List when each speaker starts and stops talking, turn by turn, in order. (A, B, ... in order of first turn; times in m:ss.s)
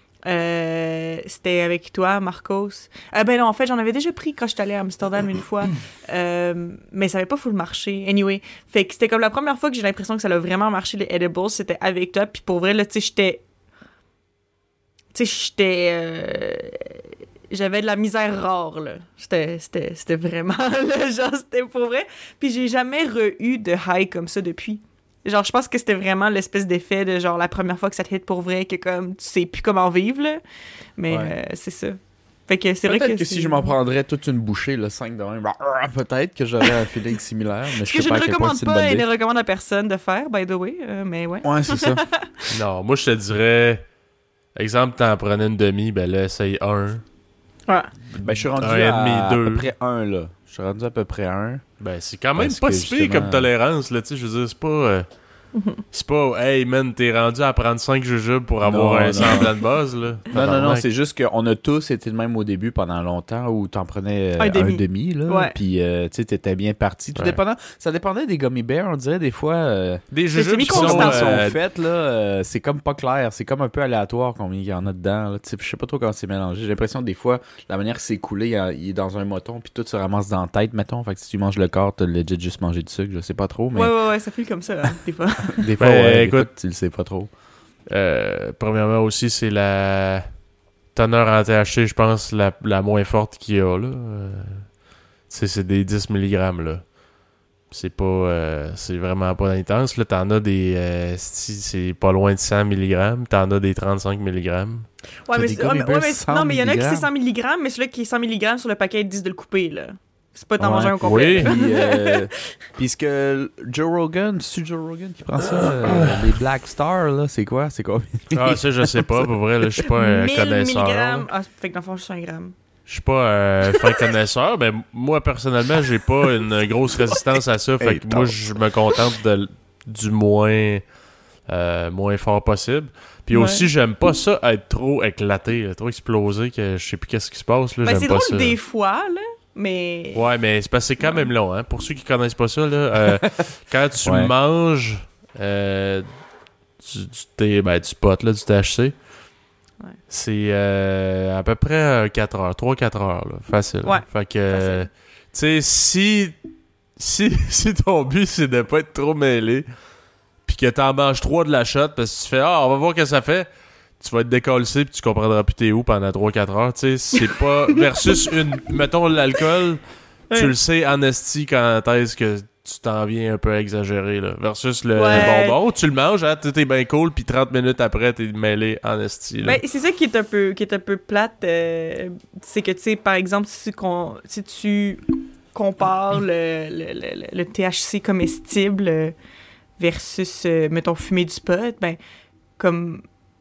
0:00.2-0:13.4 A
0:15.1-0:30.4 A
0:31.0-0:33.7 A
0:31.1-0:31.3 B
0:32.9-0:39.1 B
0:37.8-0:42.5 A
0:41.4-0:42.0 B
0:42.5-0:43.8 C
0:44.6-0:47.0 C
0:48.1-0:51.6 B
0:48.6-0:49.7 C
0:51.8-0:55.1 C
0:52.4-0:53.5 B
0:55.5-0:55.8 A
0:55.9-1:00.9 C
0:58.6-0:59.5 B
1:00.3-1:10.0 B
1:04.4-1:05.6 A
1:10.1-1:11.6 C
1:10.3-1:11.3 A
1:10.6-1:23.9 B
1:23.7-1:25.6 A
1:25.5-1:27.3 B
1:25.8-1:26.5 C
1:27.9-1:30.4 C
1:30.9-1:34.7 C
1:35.3-1:36.9 C
1:37.7-1:44.9 C
1:45.2-1:52.2 A
1:45.3-1:47.1 B
1:50.6-1:59.8 B
1:51.0-1:51.5 C
1:58.3-2:01.3 C
1:59.9-2:02.5 A
2:02.9-2:10.9 C
2:07.8-2:08.4 B
2:11.5-2:18.6 C
2:13.3-2:13.7 A
2:17.8-2:20.2 A
2:20.2-2:26.1 C
2:21.0-2:21.3 A
2:24.0-2:24.3 B
2:26.8-2:29.0 C
2:30.1-2:36.4 C
2:33.8-2:34.9 A
2:37.0-2:39.7 C
2:40.4-2:43.5 C
2:44.0-2:49.8 C
2:50.3-2:59.6 C
2:55.0-2:55.6 A
2:59.4-3:05.0 A
3:05.5-3:09.1 A
3:09.8-3:12.0 A
3:12.6-3:13.0 A